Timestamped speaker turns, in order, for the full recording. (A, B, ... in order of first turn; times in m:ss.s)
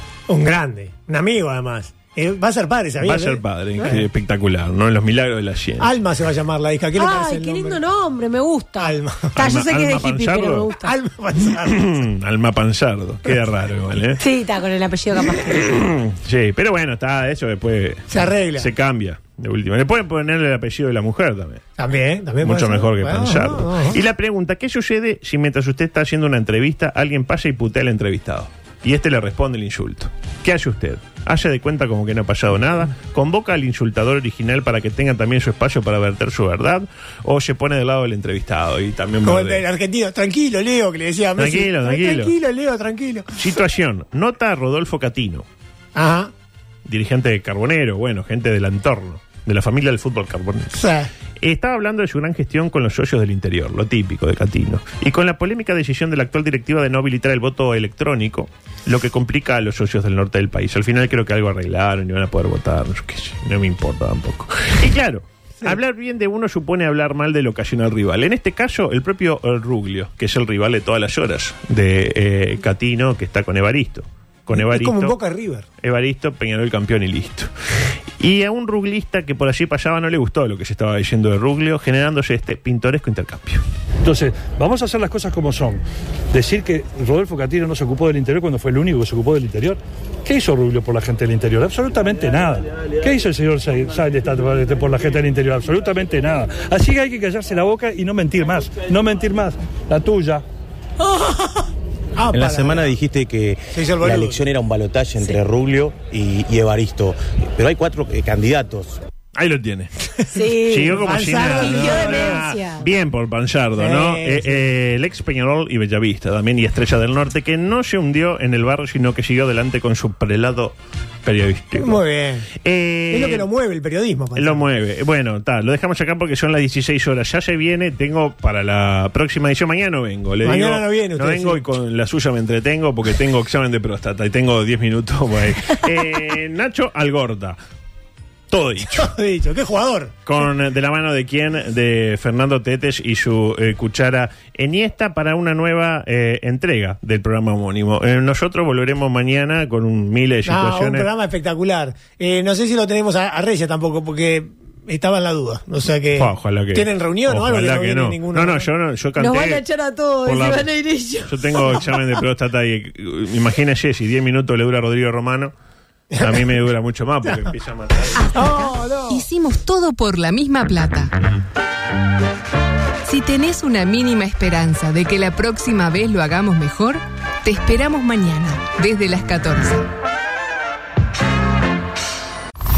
0:00.3-0:04.0 A
0:03.0-0:05.9 B
0:05.8-0:07.8 A
0:07.0-0:10.9 C
0:08.8-0:09.3 A
0:09.4-0:10.7 B
0:10.8-0:12.0 A
0:11.6-0:14.2 B
0:14.2-0:15.7 C
0:15.6-0:21.6 B
0:18.1-0:18.7 A
0:21.8-0:24.0 A
0:22.4-0:39.6 B
0:39.2-0:43.3 A
0:41.4-0:42.3 B
0:43.4-0:45.5 B
0:46.0-0:46.3 A
0:46.9-0:50.8 B
0:50.8-0:51.1 A
0:51.4-1:15.2 B
1:14.5-1:15.6 A
1:15.8-1:17.5 B
1:18.2-1:23.6 B
1:24.0-1:40.4 D
1:42.2-1:42.9 A
1:42.3-1:49.0 E
1:43.7-1:44.4 A
1:49.4-1:49.9 B
1:50.3-1:51.0 C
1:50.7-2:02.0 B
1:50.9-1:52.4 A
1:51.6-1:52.8 C
1:53.8-1:54.6 A
2:01.8-2:02.5 A
2:02.6-2:03.5 B
2:03.1-2:04.6 A
2:04.4-2:17.6 B
2:10.4-2:11.6 A
2:18.5-2:19.1 B
2:18.9-2:20.2 A
2:20.3-2:31.1 B
2:30.5-2:38.7 A
2:36.2-2:39.6 B
2:39.2-2:41.9 C
2:40.2-2:40.7 B
2:41.3-2:45.5 B
2:46.2-2:46.4 A
2:46.2-2:48.4 B
2:48.2-2:49.3 A
2:49.1-2:51.1 F
2:53.0-2:59.9 F